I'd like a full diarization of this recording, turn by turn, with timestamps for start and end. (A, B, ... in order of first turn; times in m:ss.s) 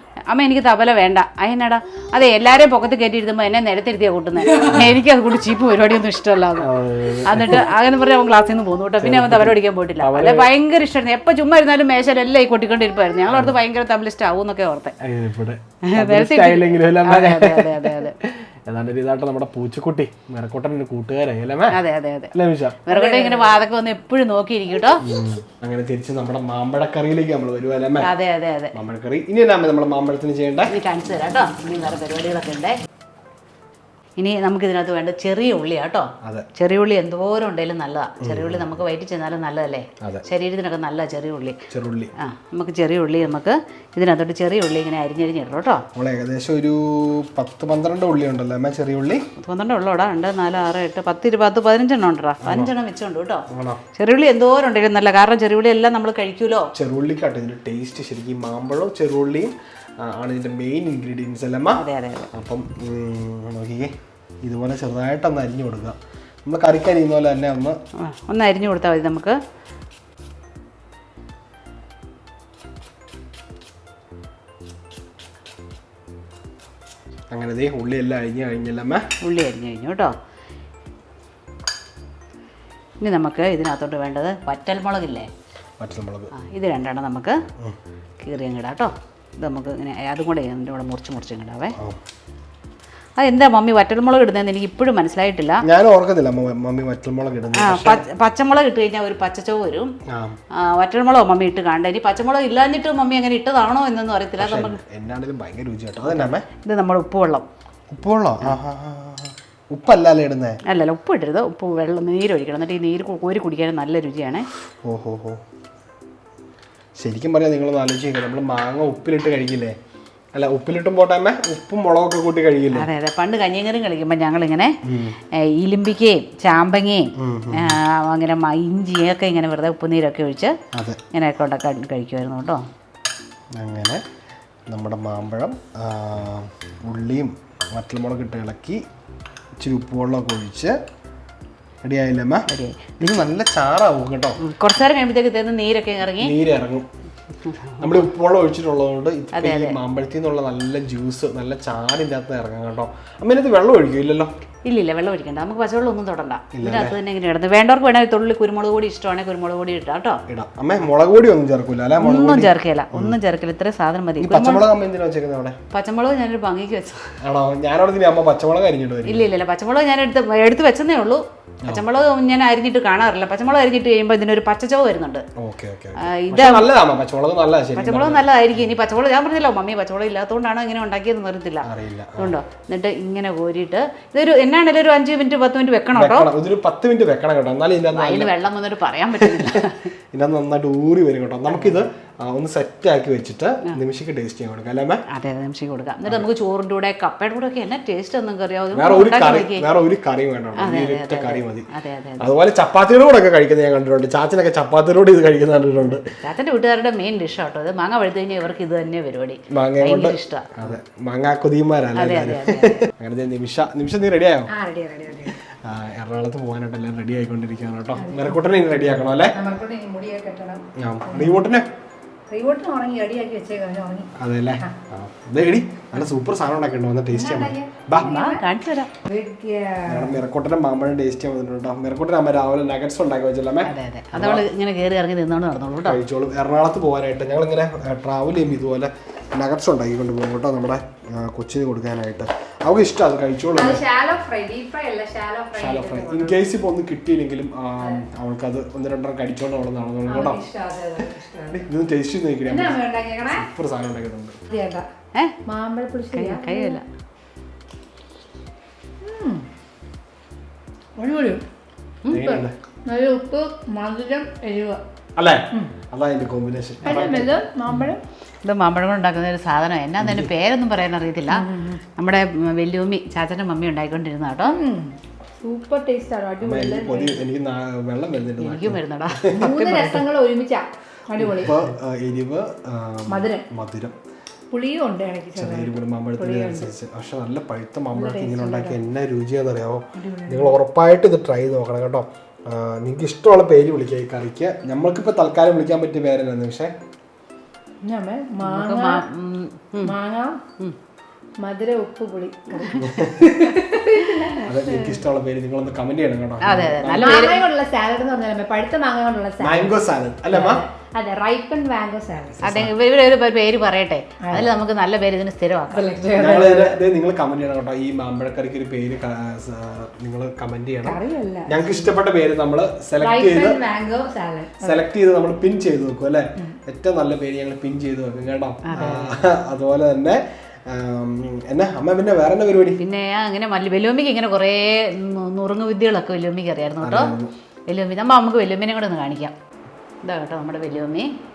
0:00.3-0:06.7 A
0:04.7-0:05.0 B
0:06.6-0:07.6 B
0:07.2-0:15.0 A
0:09.0-0:10.5 B
0:13.3-0:13.6 B
0:15.0-0:21.8 B
0:15.9-0:18.2 A
0:21.7-0:22.3 A
0:22.3-0:22.8 B
0:22.8-0:25.0 A
0:22.9-0:23.6 C
0:25.0-0:28.1 B
0:28.0-0:28.7 A
0:28.7-0:30.7 B
0:30.7-0:32.8 A
0:34.2-0:41.6 A
0:38.2-0:38.8 B
0:41.7-0:42.1 B
0:42.2-0:45.8 A
0:45.9-0:49.2 B
0:49.4-0:53.4 A
0:52.4-0:52.7 B
0:53.5-0:53.8 B
0:53.9-0:56.7 A
0:56.7-1:01.8 B
1:01.7-1:02.3 A
1:02.3-1:03.9 B
1:04.4-1:07.8 B
1:08.0-1:09.4 A
1:17.3-1:19.0 B
1:19.2-1:20.1 A
1:23.0-1:25.3 A
1:25.8-1:26.3 B
1:26.3-1:27.4 A
1:28.2-1:31.7 A
1:33.2-1:35.6 A
1:35.6-1:38.0 B
1:37.5-1:39.9 A
1:40.1-1:40.4 B
1:40.6-1:44.8 A
1:44.4-1:46.4 B
1:46.0-1:47.4 A
1:47.9-1:50.6 B
1:50.6-1:54.5 A
1:54.8-1:55.4 B
1:57.0-1:59.8 B
2:00.3-2:02.9 B
2:02.7-2:04.8 A
2:04.8-2:05.2 B
2:05.4-2:10.5 A
2:07.2-2:07.8 B
2:10.7-2:11.0 B
2:11.1-2:12.6 A
2:13.6-2:14.0 B
2:14.7-2:18.8 B
2:19.6-2:20.7 B
2:21.8-2:22.5 B
2:22.5-2:23.0 A
2:23.0-2:24.4 B
2:24.4-2:26.3 A
2:26.2-2:26.9 B
2:27.4-2:28.0 A
2:27.8-2:34.3 B
2:29.3-2:29.8 A
2:34.6-2:40.2 A
2:36.5-2:37.0 B
2:40.3-2:43.2 B
2:42.0-2:44.6 A
2:44.2-2:45.6 B
2:45.7-2:47.1 A
2:47.2-2:49.3 B
2:49.0-2:55.2 A
2:55.4-2:58.7 B
2:56.0-2:56.7 A
2:57.8-3:01.7 A
3:01.6-3:02.4 B
3:02.2-3:06.3 A
3:05.9-3:08.3 B
3:07.9-3:09.9 A
3:09.2-3:15.0 B
3:11.5-3:11.8 A
3:15.1-3:19.6 A
3:18.7-3:21.6 B
3:20.5-3:22.2 A
3:22.2-3:26.0 B
3:26.2-3:30.7 A
3:29.5-3:34.5 B
3:32.0-3:32.9 A
3:34.5-3:35.4 C
3:35.6-3:39.4 B
3:38.0-3:38.3 C
3:39.3-3:41.3 C
3:40.8-3:41.7 B
3:42.3-3:44.7 C
3:44.2-3:48.1 B
3:47.1-3:48.5 C
3:47.9-3:48.9 A
3:49.0-3:50.2 C
3:49.9-3:54.4 B
3:53.6-3:56.0 A
3:55.8-4:03.8 B
4:03.5-4:06.4 C
4:05.6-4:10.4 B
4:07.8-4:08.0 C
4:10.0-4:11.6 C
4:11.5-4:14.4 B
4:12.4-4:13.5 C
4:14.5-4:14.9 C
4:15.4-4:16.8 C
4:16.1-4:16.8 A
4:19.0-4:19.4 C
4:21.0-4:21.4 C
4:22.1-4:22.5 B
4:22.1-4:24.8 C
4:25.2-4:27.4 B
4:26.8-4:28.0 C
4:26.9-4:27.2 A
4:28.4-4:34.6 A
4:30.0-4:30.3 B
4:31.3-4:31.8 C
4:34.5-4:37.2 C
4:36.4-4:39.6 B
4:38.4-4:40.0 A
4:39.3-4:41.5 C
4:41.2-4:44.0 B
4:43.1-4:43.5 C
4:44.5-4:46.7 C
4:45.4-4:56.7 B
4:47.9-4:48.8 C
4:49.9-4:50.5 C
4:57.8-4:59.0 C
4:58.4-4:59.9 A
4:59.8-5:00.4 C
5:01.4-5:04.9 C
5:02.8-5:03.4 B
5:03.9-5:04.5 A
5:04.4-5:07.4 B
5:06.4-5:07.4 A
5:07.0-5:09.8 C
5:09.4-5:10.6 B
5:10.3-5:12.4 C
5:12.4-5:12.7 B
5:12.4-5:15.9 A
5:14.2-5:14.5 C
5:15.7-5:16.8 C
5:16.2-5:23.6 B
5:20.8-5:21.6 C
5:23.0-5:24.8 C
5:24.6-5:32.8 B
5:28.6-5:29.2 A
5:32.8-5:37.1 A
5:36.8-5:37.3 B
5:37.7-5:39.3 A
5:40.0-5:41.1 A